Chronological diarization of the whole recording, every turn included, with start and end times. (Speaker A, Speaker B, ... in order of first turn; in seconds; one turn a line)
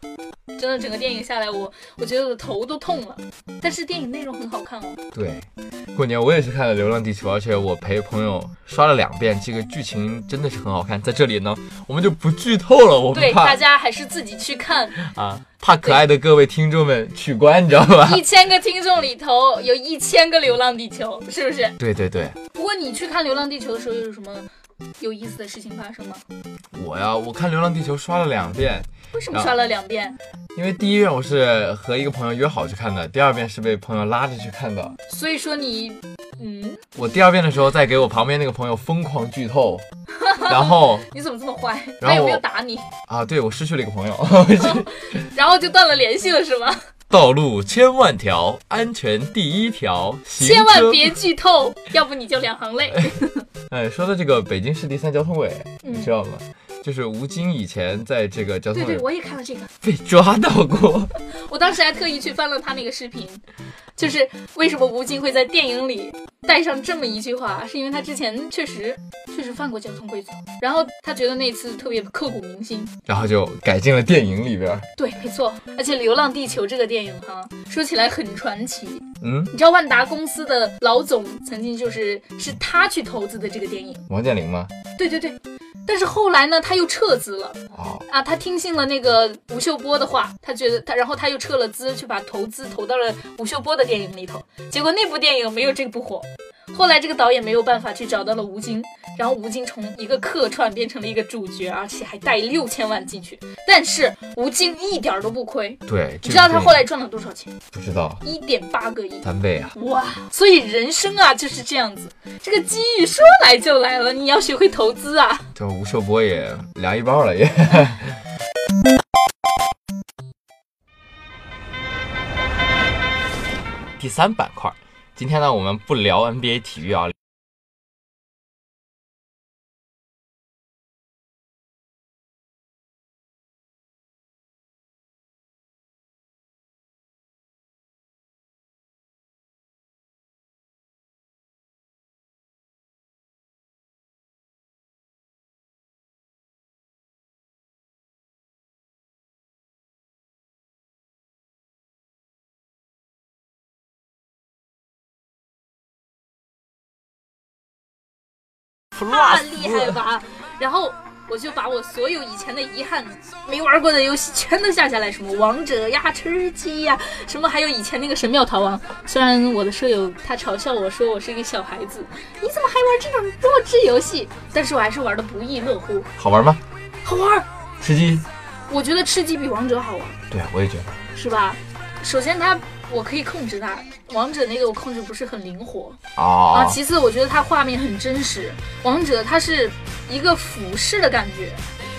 Speaker A: 0.6-5.0
Speaker B: 5.1-13.6
Speaker A: 13.1-15.0
Speaker B: 15.0-18.2
Speaker A: 18.0-21.8
Speaker B: 21.8-22.4
Speaker A: 22.5-26.2
Speaker B: 26.7-29.6
Speaker A: 29.1-30.2
Speaker B: 30.6-35.0
Speaker A: 35.1-36.9
Speaker B: 37.0-39.9
Speaker A: 40.2-42.9
Speaker B: 40.4-41.1
Speaker B: 42.0-42.4
Speaker B: 43.1-45.0
Speaker A: 44.6-46.9
Speaker B: 47.1-51.2
Speaker A: 50.4-53.5
Speaker B: 53.7-59.1
Speaker A: 55.8-56.1
Speaker A: 58.7-59.7
Speaker B: 59.8-61.1
Speaker A: 61.3-63.4
Speaker A: 64.0-72.9
Speaker B: 73.1-74.9
Speaker A: 75.0-84.0
Speaker B: 79.2-79.5
Speaker B: 84.1-84.7
Speaker A: 85.0-107.5
Speaker B: 87.7-88.1
Speaker B: 105.9-106.8
Speaker B: 107.7-108.2
Speaker A: 108.2-115.5
Speaker B: 109.2-109.8
Speaker B: 115.5-118.2
Speaker B: 124.0-127.2
Speaker B: 159.0-160.0
Speaker A: 159.1-176.1
Speaker B: 176.2-176.6
Speaker A: 177.0-177.5
Speaker B: 177.8-178.3
Speaker A: 178.7-180.2
Speaker B: 180.3-180.9
Speaker A: 181.1-186.0
Speaker B: 186.2-186.8
Speaker A: 186.5-191.6